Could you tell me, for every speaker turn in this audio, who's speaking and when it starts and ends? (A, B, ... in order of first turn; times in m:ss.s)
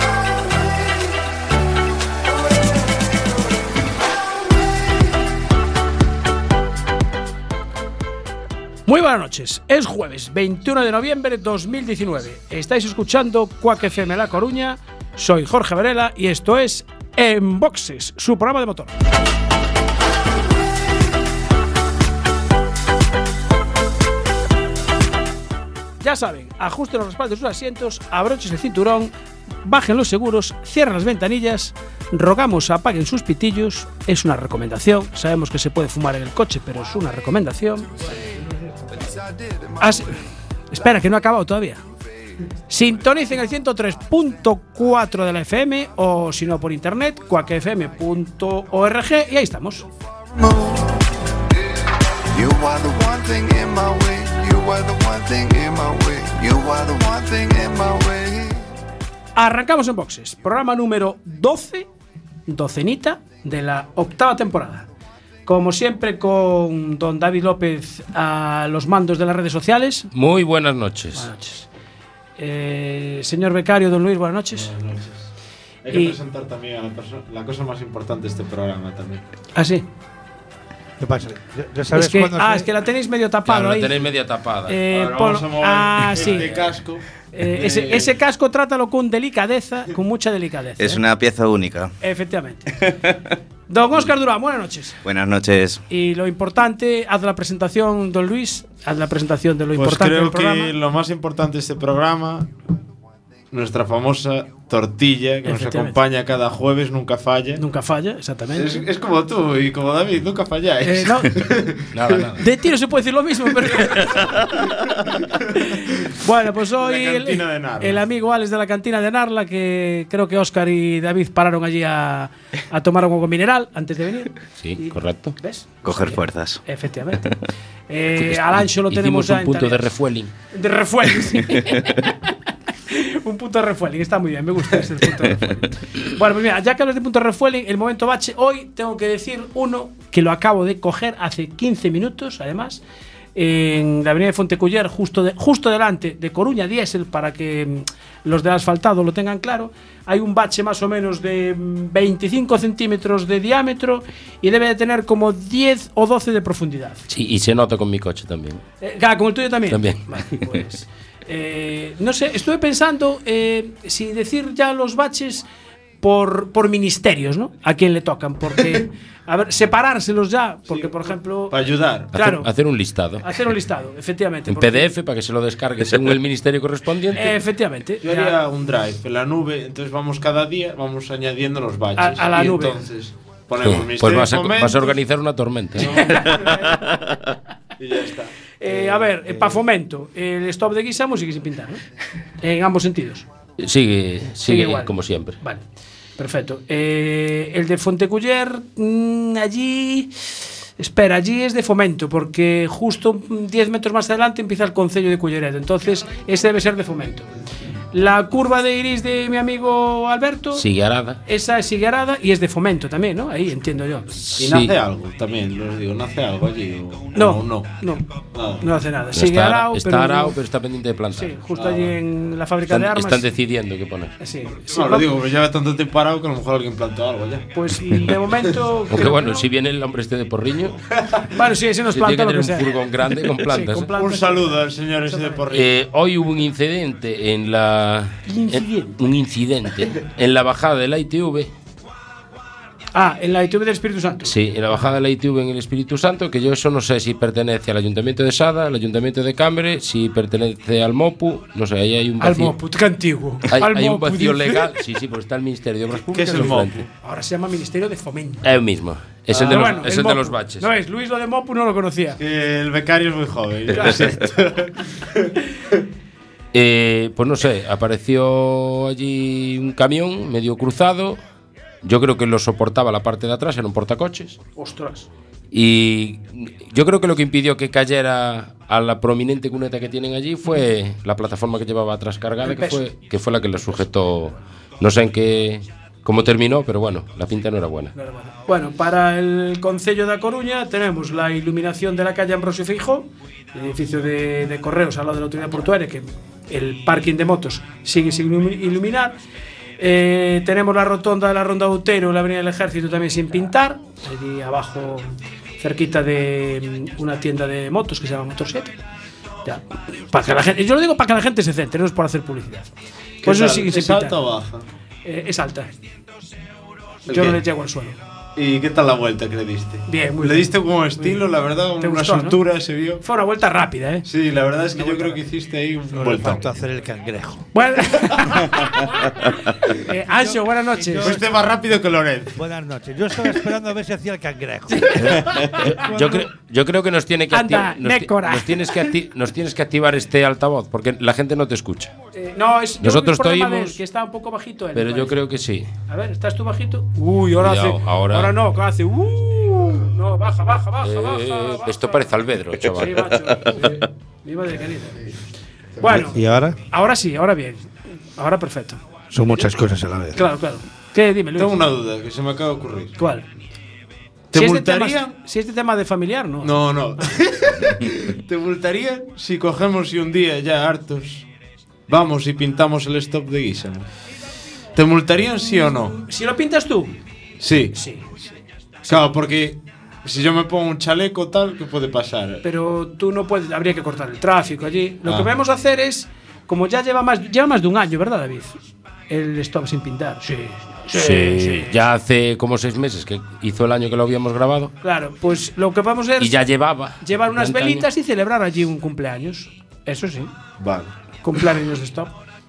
0:08.9-0:18.9 A
0:26.0-0:29.1 A
0:29.6-0:37.9 A
0:39.0-0:40.1 B
0:39.8-0:40.0 A
0:40.7-0:41.8 A
0:42.7-0:49.8 A
0:50.3-0:51.1 B
0:52.3-0:58.7 B
0:59.4-1:01.8 A
1:02.5-1:04.8 A
1:05.4-1:10.1 A
1:10.1-1:11.3 C
1:11.2-1:11.7 A
1:12.4-1:14.7 A
1:14.5-1:15.3 D
1:15.8-1:19.2 D
1:19.6-1:19.8 A
1:21.0-1:22.7 E
1:21.9-1:24.1 A
1:23.4-1:24.8 C
1:24.7-1:26.5 A
1:24.9-1:28.1 D
1:26.3-1:26.6 C
1:27.3-1:31.0 A
1:30.8-1:31.9 F
1:32.0-1:32.7 A
1:33.7-1:35.0 A
1:35.0-1:35.8 F
1:35.9-1:40.7 A
1:39.7-1:42.5 D
1:43.5-1:47.6 D
1:45.4-1:46.0 A
1:47.6-1:48.8 A
1:48.5-1:52.3 D
1:50.8-1:51.4 A
1:51.9-1:52.4 C
1:52.4-1:54.6 A
1:55.5-2:07.3 A
1:56.8-1:58.0 D
2:04.6-2:05.3 C
2:05.8-2:06.6 F
2:07.9-2:09.8 A
2:08.2-2:10.3 C
2:10.5-2:12.1 A
2:12.9-2:22.8 A
2:23.3-2:37.0 A
2:37.1-2:38.6 C
2:38.8-2:45.4 A
2:39.7-2:40.4 C
2:46.0-2:51.6 A
2:51.5-2:52.1 D
2:52.1-2:52.5 A
2:52.1-2:53.4 C
2:53.2-2:54.9 A
2:54.5-2:57.4 C
2:57.1-2:58.3 A
2:58.0-3:05.0 D
3:02.0-3:02.8 A
3:03.6-3:06.0 C
3:05.8-3:06.7 D
3:05.9-3:06.9 A
3:07.8-3:09.6 D
3:08.6-3:11.8 A
3:12.4-3:13.2 A
3:13.6-3:15.4 C
3:14.4-3:15.6 A
3:16.2-3:20.1 A
3:20.8-3:27.3 A
3:27.9-3:30.6 A
3:30.6-3:31.2 C
3:31.2-3:34.4 A
3:34.4-3:37.7 D
3:34.4-3:34.7 C
3:37.1-3:38.0 A
3:38.3-3:38.7 D
3:38.6-3:40.4 A
3:39.1-3:41.4 C
3:41.1-3:43.2 A
3:41.6-3:41.9 D
3:42.7-3:44.2 C
3:44.2-3:45.1 A
3:44.7-3:47.5 D
3:47.5-3:49.4 A
3:48.9-3:50.8 C
3:51.3-3:52.7 A
3:51.9-3:53.9 C
3:53.4-3:55.4 A
3:54.0-3:55.8 D
3:55.5-4:01.5 C
3:58.3-3:59.0 A
4:02.9-4:04.3 A
4:04.2-4:12.6 C
4:12.2-4:14.7 A
4:13.5-4:16.8 C
4:16.1-4:16.9 D
4:17.0-4:18.4 A
4:18.4-4:20.7 C
4:19.3-4:19.8 D
4:19.5-4:22.2 A
4:22.2-4:25.3 D
4:23.7-4:24.0 A
4:26.5-4:31.2 C
4:31.8-4:34.4 C
4:34.6-4:35.1 A
4:35.5-4:47.9 C
4:42.4-4:42.8 A
4:48.0-4:59.1 A
4:59.8-5:08.7 A
5:09.4-5:12.7 A
5:13.2-5:14.6 D
5:13.2-5:14.2 A
5:15.0-5:15.7 A
5:17.1-5:18.0 A
5:17.1-5:17.4 D
5:18.4-5:23.0 D
5:19.9-5:21.2 A
5:21.8-5:22.4 A
5:23.0-5:24.1 A
5:24.0-5:26.5 D
5:24.8-5:25.1 A
5:26.0-5:27.5 E
5:27.5-5:31.1 A
5:30.8-5:31.2 E
5:31.0-5:32.4 D
5:32.4-5:36.3 E
5:34.7-5:35.7 A
5:35.6-5:41.9 C
5:37.3-5:38.9 A
5:42.1-5:45.2 A
5:42.8-5:43.8 C
5:44.8-5:45.7 C
5:45.9-5:52.2 A
5:47.4-5:48.4 C
5:50.8-5:53.3 C
5:52.7-5:55.0 A
5:55.8-5:58.8 A
5:55.8-5:56.1 D
5:56.1-5:56.6 E
5:59.1-6:00.2 E
6:00.1-6:01.5 A
6:01.4-6:03.0 D
6:03.0-6:03.2 A
6:04.3-6:05.2 D
6:04.3-6:06.5 A
6:06.4-6:11.2 D
6:11.9-6:13.9 D
6:14.7-6:16.0 D
6:15.4-6:17.0 A
6:17.4-6:17.8 D
6:17.7-6:19.1 A
6:18.9-6:22.4 D
6:22.4-6:31.8 A
6:30.9-6:34.7 C
6:34.8-6:36.4 A
6:36.2-6:37.8 C
6:37.0-6:40.3 A
6:40.6-6:40.9 D
6:41.2-6:42.1 A